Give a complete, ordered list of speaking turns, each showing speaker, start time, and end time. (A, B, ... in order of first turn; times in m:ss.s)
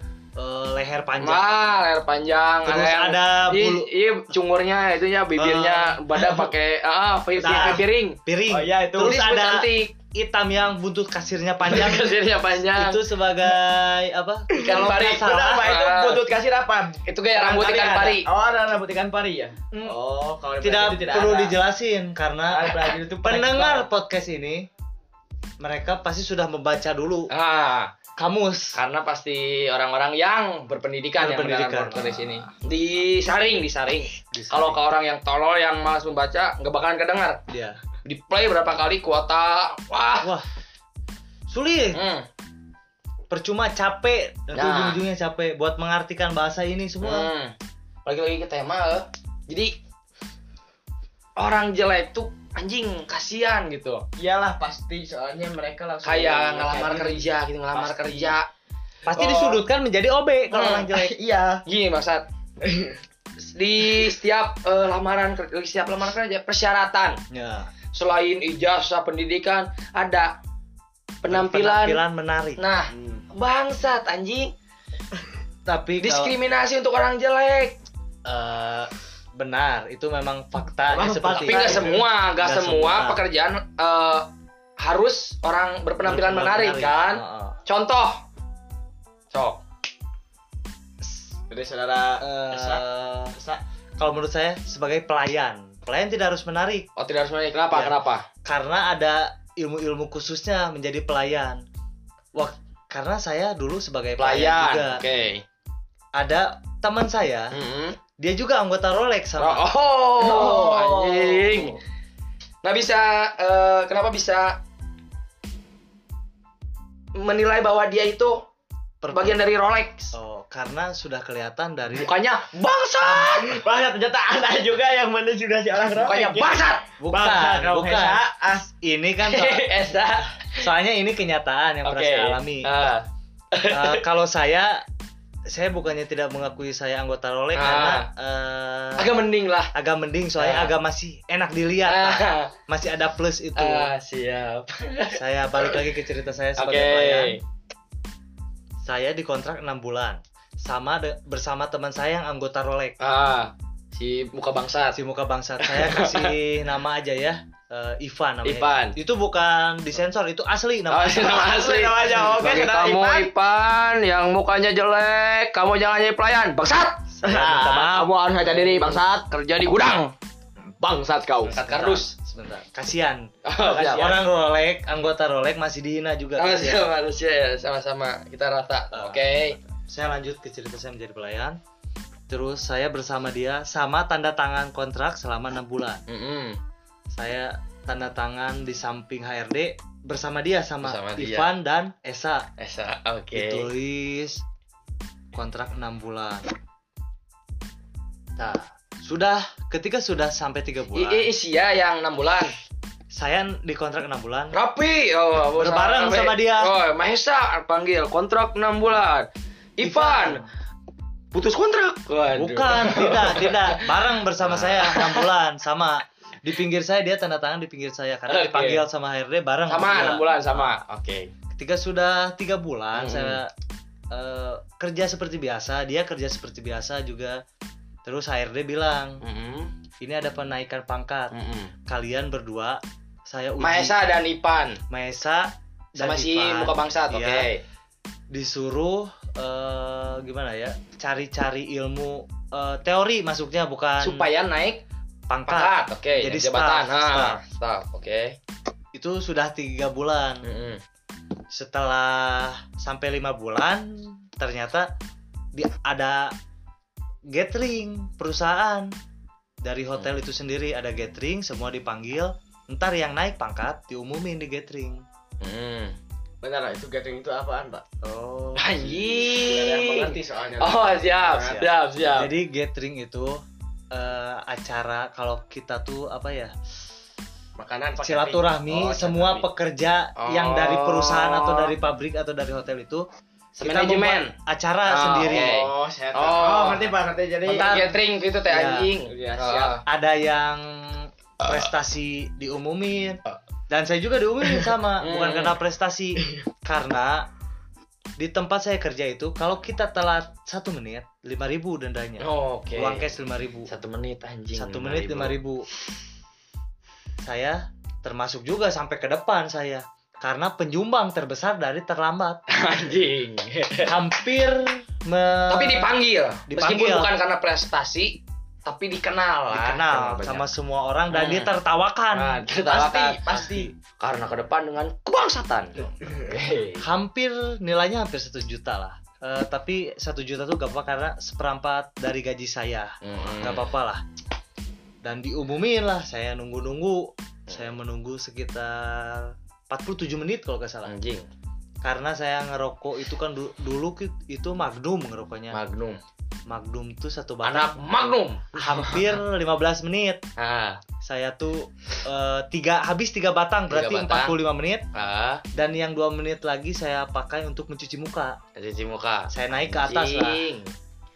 0:00.4-0:01.4 A
0:01.2-0:08.2 B
0:02.6-0:03.9 A
0:05.4-0:06.5 A
0:07.4-0:15.7 A
0:08.5-0:09.2 C
0:09.0-0:09.9 B
0:11.6-0:13.0 B
0:14.5-0:16.2 B
0:14.6-0:21.6 C
0:17.0-0:18.3 B
0:20.6-0:24.7 A
0:22.5-0:23.9 C
0:25.6-0:27.3 A
0:27.3-0:27.9 B
0:28.2-0:28.8 A
0:28.7-0:37.4 B
0:31.2-0:32.5 A
0:34.3-0:34.8 A
0:37.5-0:37.8 A
0:38.0-0:40.3 B
0:40.2-0:40.5 A
0:41.5-0:42.0 A
0:41.9-0:42.2 B
0:43.3-0:47.3 A
0:44.5-0:45.0 B
0:47.0-0:49.8 B
0:51.4-0:54.0 B
0:54.2-0:58.4 C
0:56.0-0:58.5 B
0:59.1-1:01.1 A
0:59.2-0:59.6 B
1:00.5-1:00.9 B
1:00.9-1:01.6 C
1:01.6-1:02.2 B
1:02.6-1:03.0 C
1:03.4-1:07.2 B
1:07.3-1:07.7 A
1:07.9-1:10.4 B
1:11.2-1:12.0 B
1:11.3-1:12.6 A
1:12.6-1:14.5 B
1:12.9-1:13.2 C
1:15.7-1:16.3 A
1:16.0-1:17.8 B
1:18.2-1:23.2 A
1:20.9-1:22.0 C
1:21.3-1:24.3 B
1:24.8-1:28.2 B
1:26.0-1:27.6 A
1:29.3-1:29.6 B
1:31.5-1:32.8 C
1:32.2-1:33.4 A
1:33.3-1:33.6 C
1:34.0-1:36.9 A
1:37.0-1:38.2 B
1:37.7-1:41.6 A
1:42.3-1:45.0 A
1:44.2-1:45.4 B
1:46.1-1:47.5 A
1:47.5-1:48.0 B
1:48.2-1:49.7 A
1:49.4-1:51.8 B
1:50.2-1:51.7 A
1:52.6-1:54.6 B
1:57.1-1:58.5 B
1:59.0-1:59.4 A
1:59.1-2:00.1 B
2:00.1-2:02.1 A
2:01.9-2:03.6 B
2:03.0-2:03.3 A
2:03.4-2:08.7 C
2:06.0-2:06.8 B
2:07.0-2:08.2 A
2:08.8-2:09.7 A
2:09.2-2:10.6 B
2:10.6-2:12.7 A
2:11.8-2:14.0 B
2:13.7-2:14.8 A
2:15.5-2:19.1 A
2:17.5-2:18.1 B
2:19.0-2:19.7 B
2:19.7-2:23.9 A
2:20.4-2:20.7 B
2:21.8-2:22.5 B
2:23.6-2:25.2 B
2:25.1-2:27.4 A
2:26.6-2:27.4 B
2:28.8-2:33.0 A
2:33.0-2:35.0 B
2:34.9-2:41.4 A
2:35.6-2:36.3 B
2:38.4-2:39.0 B
2:40.9-2:47.0 B
2:41.2-2:43.3 C
2:47.1-2:48.1 A
2:47.2-2:49.2 C
2:48.6-2:50.1 B
2:50.8-2:51.6 C
2:51.4-2:52.1 B
2:51.6-2:56.8 A
2:53.4-2:54.1 B
2:53.7-2:54.2 C
2:56.4-2:59.6 B
2:58.9-2:59.2 A
2:59.9-3:01.6 A
3:02.3-3:06.0 A
3:06.1-3:06.6 B
3:07.1-3:12.5 A
3:10.8-3:11.5 B
3:12.6-3:13.7 B
3:13.3-3:14.4 A
3:15.3-3:16.4 A
3:18.4-3:21.3 A
3:20.9-3:22.5 B
3:23.1-3:24.6 A
3:24.5-3:30.4 B
3:25.5-3:26.7 A
3:29.8-3:30.5 A
3:31.3-3:35.3 B
3:32.3-3:40.8 A
3:38.3-3:38.8 B
3:39.7-3:41.3 B
3:41.5-3:43.5 A
3:42.9-3:43.4 B
3:44.1-3:47.4 A
3:48.0-3:49.2 A
3:49.2-3:49.7 B
3:50.0-3:51.3 A
3:51.3-3:51.7 B
3:51.8-3:54.0 A
3:53.6-3:54.8 B
3:54.9-3:57.5 A
3:56.0-3:57.6 B
3:58.3-4:04.3 A
4:04.0-4:04.8 B
4:05.3-4:07.4 A
4:05.5-4:08.4 B
4:08.9-4:10.4 A
4:10.4-4:10.8 B
4:11.5-4:14.9 A
4:15.5-4:16.3 A
4:17.3-4:18.9 A
4:19.6-4:25.0 A
4:25.4-4:26.0 B
4:26.4-4:27.8 C
4:28.0-4:28.8 A
4:28.6-4:32.3 B
4:29.0-4:31.6 C
4:31.5-4:36.5 A
4:37.6-4:39.5 C
4:38.0-4:45.5 A
4:40.2-4:41.7 B
4:43.6-4:44.3 B
4:44.8-4:46.9 B
4:45.3-4:47.7 C
4:47.4-4:49.8 B
4:47.5-4:47.9 A
4:48.5-4:48.9 A
4:49.1-4:49.8 C
4:49.8-4:57.3 A
4:55.0-4:55.6 B
4:58.2-5:03.7 A
5:02.2-5:03.0 B
5:03.7-5:05.4 B
5:04.5-5:05.7 A
5:07.2-5:12.4 A
5:12.5-5:13.9 B
5:13.8-5:15.9 A
5:15.5-5:20.5 B
5:16.5-5:17.1 A
5:19.5-5:22.4 A
5:21.1-5:21.5 B
5:22.1-5:23.4 B
5:22.6-5:23.7 C
5:23.4-5:23.7 A
5:24.0-5:26.8 B
5:26.8-5:34.0 A
5:33.0-5:33.7 B
5:35.0-5:40.9 A
5:40.8-5:41.3 B
5:41.8-5:45.6 A
5:45.5-5:46.0 B
5:46.5-5:50.2 A
5:47.4-5:49.2 B
5:50.4-5:50.8 B
5:51.0-5:54.8 A
5:53.7-5:54.4 B
5:54.9-5:55.4 B
5:55.5-5:58.4 A
5:58.6-6:00.7 B
5:59.3-6:00.4 A